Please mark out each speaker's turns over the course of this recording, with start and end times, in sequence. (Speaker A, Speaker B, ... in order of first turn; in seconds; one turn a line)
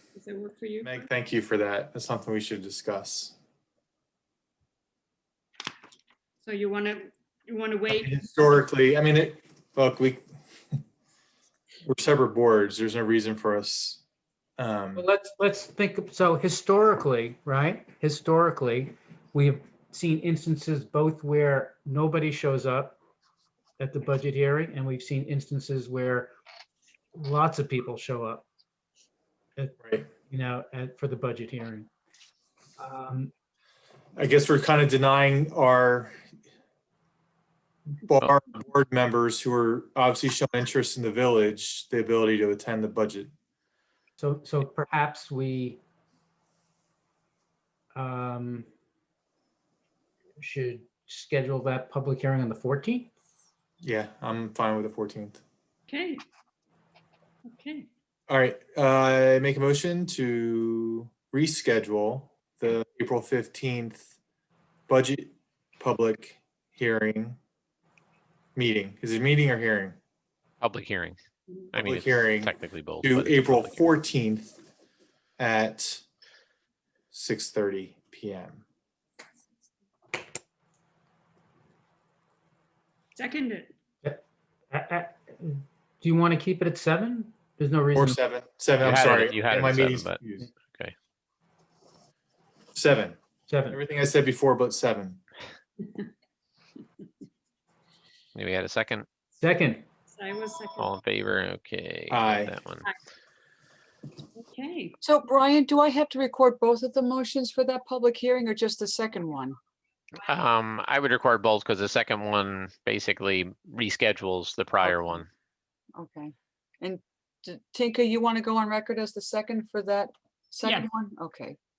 Speaker A: 0.2-1.1
Speaker B: 0.8-3.3
Speaker A: 6.4-8.5
Speaker B: 7.9-10.2
Speaker B: 11.9-14.0
Speaker B: 14.6-15.1
Speaker C: 15.0-23.0
Speaker C: 23.8-26.3
Speaker C: 27.1-28.5
Speaker C: 29.6-31.9
Speaker B: 29.8-30.1
Speaker C: 32.8-33.3
Speaker B: 34.1-36.1
Speaker B: 38.0-43.3
Speaker C: 44.2-45.8
Speaker C: 47.9-48.7
Speaker C: 50.4-53.1
Speaker B: 53.8-55.4
Speaker A: 55.9-56.2
Speaker A: 57.5-57.9
Speaker B: 58.3-64.1
Speaker B: 64.9-67.4
Speaker B: 68.5-70.0
Speaker D: 70.6-71.2
Speaker D: 71.7-73.9
Speaker B: 71.8-74.6
Speaker B: 75.4-76.0
Speaker B: 77.1-78.6
Speaker A: 83.2-83.7
Speaker C: 84.0-88.2
Speaker B: 88.0-90.5
Speaker D: 88.8-90.9
Speaker B: 92.7-93.2
Speaker C: 93.5-93.8
Speaker B: 93.7-95.2
Speaker D: 98.3-99.1
Speaker C: 99.4-99.9
Speaker A: 100.1-100.9
Speaker D: 100.8-102.9
Speaker B: 102.1-102.5
Speaker A: 104.4-105.0
Speaker E: 105.0-109.6
Speaker D: 110.2-115.3
Speaker E: 114.8-115.2
Speaker E: 116.0-121.6
Speaker A: 120.6-120.9